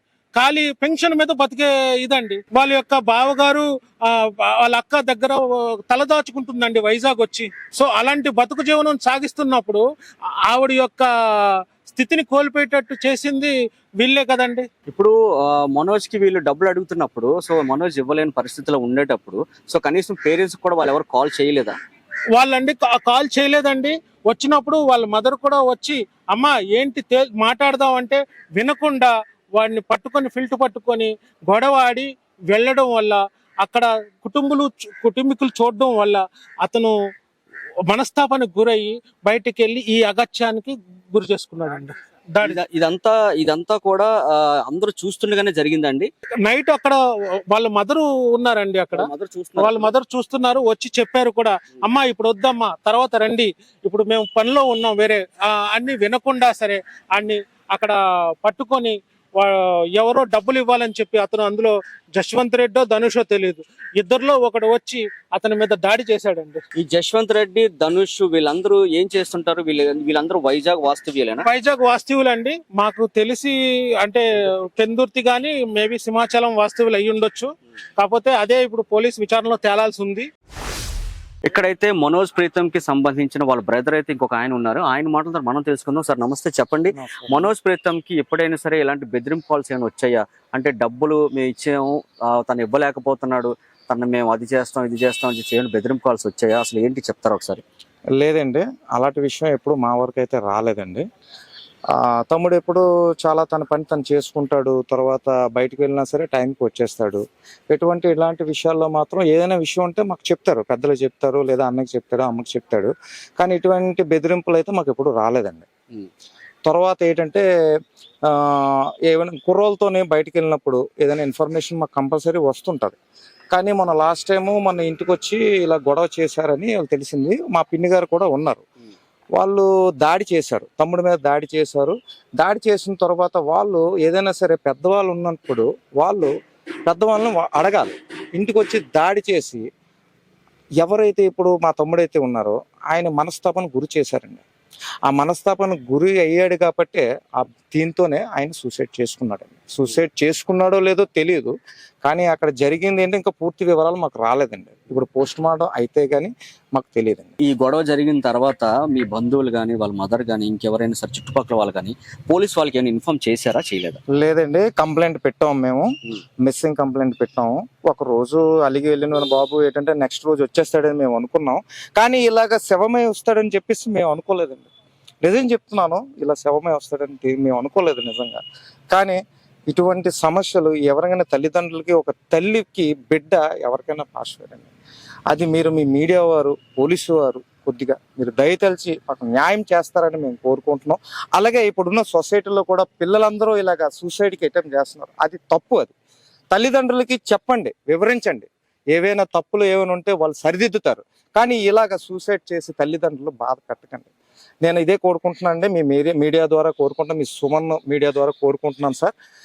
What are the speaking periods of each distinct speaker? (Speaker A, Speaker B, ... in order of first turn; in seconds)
Speaker A: 0.4-14.7, 22.4-37.0, 37.9-42.6, 46.5-66.6, 71.6-80.3
Speaker B: 14.9-21.8, 42.4-46.1, 48.9-49.9, 66.8-71.5, 81.5-97.6, 157.4-164.0
Speaker C: 86.9-87.5, 98.2-101.0, 102.0-115.7, 116.7-117.4, 118.3-123.0, 123.5-128.6, 129.4-136.3, 136.9-139.6, 140.8-144.4, 145.1-151.5, 152.0-157.3, 164.2-165.9, 166.4-174.7, 175.2-184.7, 185.3-195.9, 196.5-204.1, 204.6-209.1